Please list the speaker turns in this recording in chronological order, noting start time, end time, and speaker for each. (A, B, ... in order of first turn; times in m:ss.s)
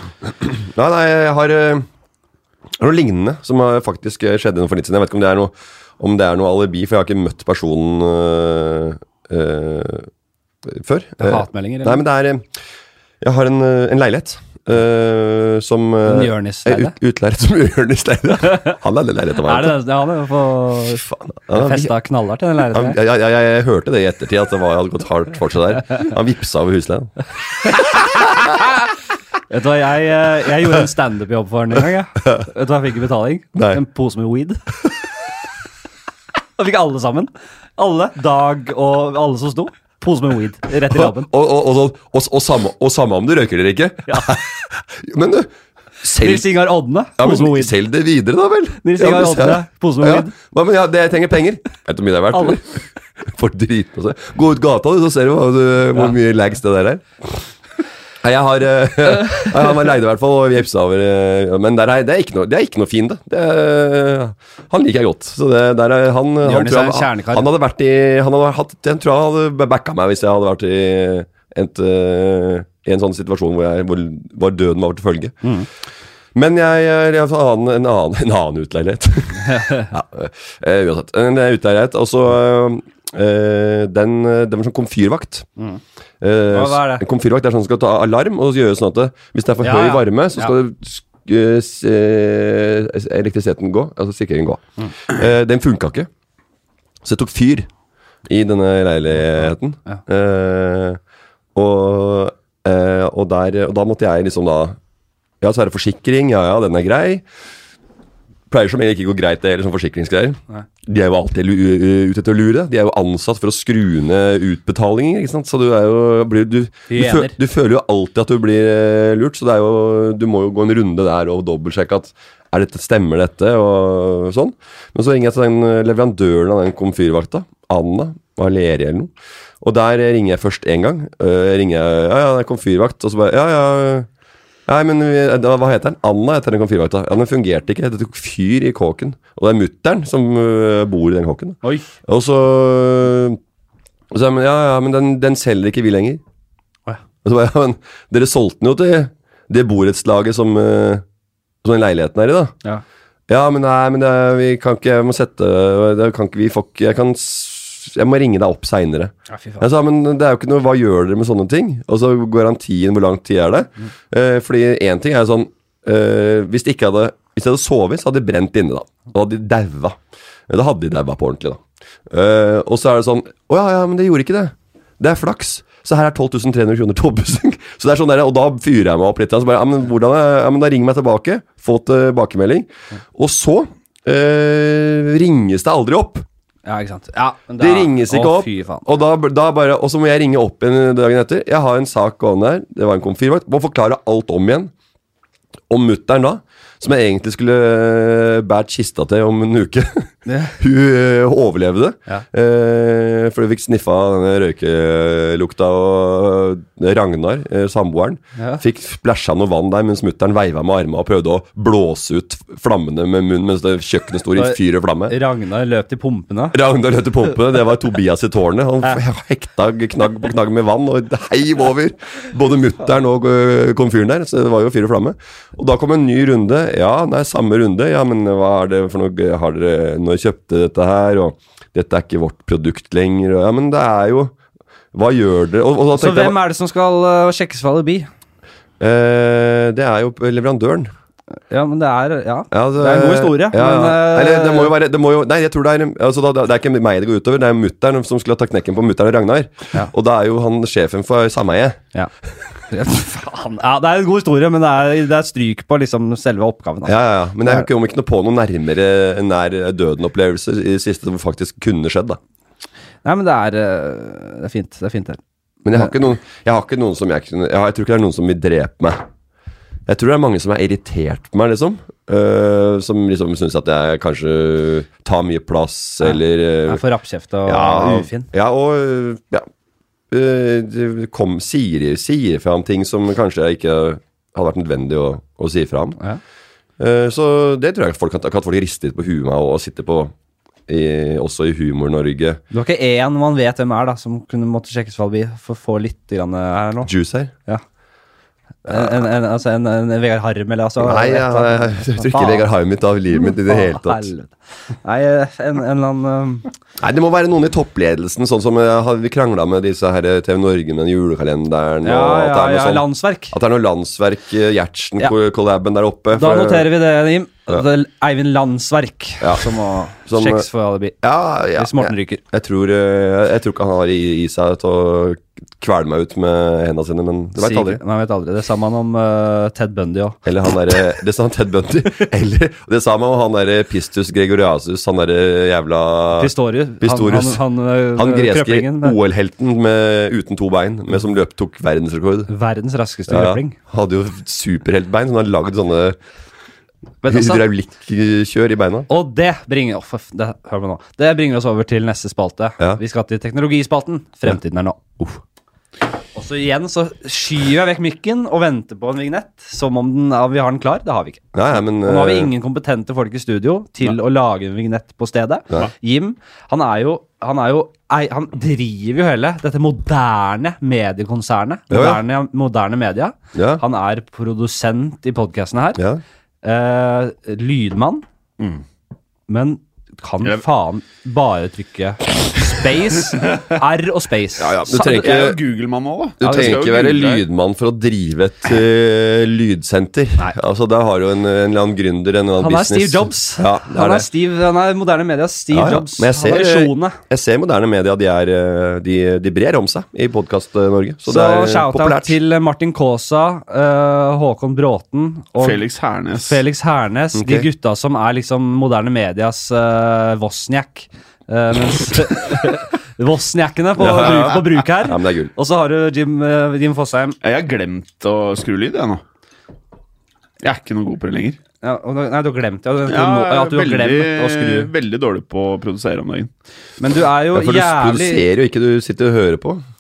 0:00.2-0:01.9 A
0:02.8-0:10.1 A
0:10.6-0:12.5 A
0:11.2-0:12.0 B
0:13.2-0:19.8 A
0:16.1-0:17.0 B
0:18.5-0:18.8 B
0:19.4-0:23.0 B
0:21.0-0:21.9 A
0:22.7-0:28.2 A
0:29.5-0:34.6 B
0:33.6-0:33.8 A
0:36.6-0:41.3 B
0:40.9-0:45.5 A
0:44.1-0:44.4 B
0:46.0-0:46.5 A
0:46.2-0:47.7 B
0:47.2-0:57.5 A
0:48.8-0:50.3 B
0:58.2-1:15.4 A
1:06.4-1:07.5 B
1:15.4-1:15.7 B
1:16.4-1:25.5 A
1:19.4-1:19.9 B
1:26.2-1:36.1 A
1:26.5-1:27.0 B
1:29.6-1:30.6 B
1:37.0-1:37.7 A
1:38.3-1:41.0 A
1:41.6-1:44.8 A
1:45.4-1:47.2 A
1:48.5-2:14.1 A
1:56.9-1:57.4 B
2:14.7-2:23.4 A
2:24.1-2:26.2 A
2:27.2-2:31.0 A
2:31.6-2:32.6 A
2:33.3-2:50.0 A
2:39.3-2:39.7 B
2:50.5-3:06.3 A
3:06.7-3:08.9 B
3:07.6-3:14.7 A
3:15.7-3:35.2 A
3:20.3-3:20.6 B
3:28.4-3:28.6 B
3:34.4-3:36.6 B
3:36.5-3:54.3 A
3:54.9-3:56.4 A
3:55.9-3:58.1 B
3:58.8-4:00.9 A
4:01.5-4:04.7 B
4:02.5-4:11.8 A
4:12.7-4:17.7 B
4:16.8-4:22.2 A
4:23.0-4:25.2 B
4:25.6-4:29.0 A
4:29.9-4:36.8 A
4:36.0-4:38.3 B
4:37.5-4:39.5 A
4:40.1-4:46.0 A
4:46.8-4:50.1 A
4:50.7-4:52.4 A
4:52.5-4:56.9 B
4:56.8-4:57.3 A
4:58.7-5:02.5 B
4:58.7-4:58.9 A
5:00.8-5:04.1 A
5:03.1-5:06.5 B
5:06.8-5:16.7 A
5:11.8-5:13.4 B
5:16.1-5:21.0 B
5:19.2-5:19.5 A
5:20.1-5:20.5 A
5:21.0-5:27.8 A
5:21.6-5:22.2 B
5:27.4-5:30.2 B
5:30.2-5:37.4 A
5:36.2-5:39.0 B
5:38.0-5:42.3 A
5:42.3-5:43.6 B
5:43.1-5:46.0 A
5:47.0-5:47.4 B
5:47.1-5:48.9 A
5:48.9-5:55.2 B
5:56.2-6:15.8 B
6:01.3-6:02.3 A
6:11.7-6:12.0 A
6:13.3-6:13.6 A
6:16.4-6:18.0 B
6:19.3-6:25.1 B
6:24.4-6:25.4 A
6:24.7-6:27.2 C
6:26.2-6:34.1 A
6:26.2-6:26.6 B
6:32.4-6:37.0 B
6:35.5-6:42.2 A
6:41.1-6:45.6 B
6:45.4-6:46.4 C
6:46.2-6:57.2 B
6:47.2-6:47.5 A
6:53.8-6:55.3 A
6:54.0-6:54.4 C
6:57.2-6:59.0 C
7:00.4-7:01.4 C
7:01.6-7:04.7 B
7:02.9-7:06.3 C
7:06.8-7:08.3 B
7:07.3-7:09.6 A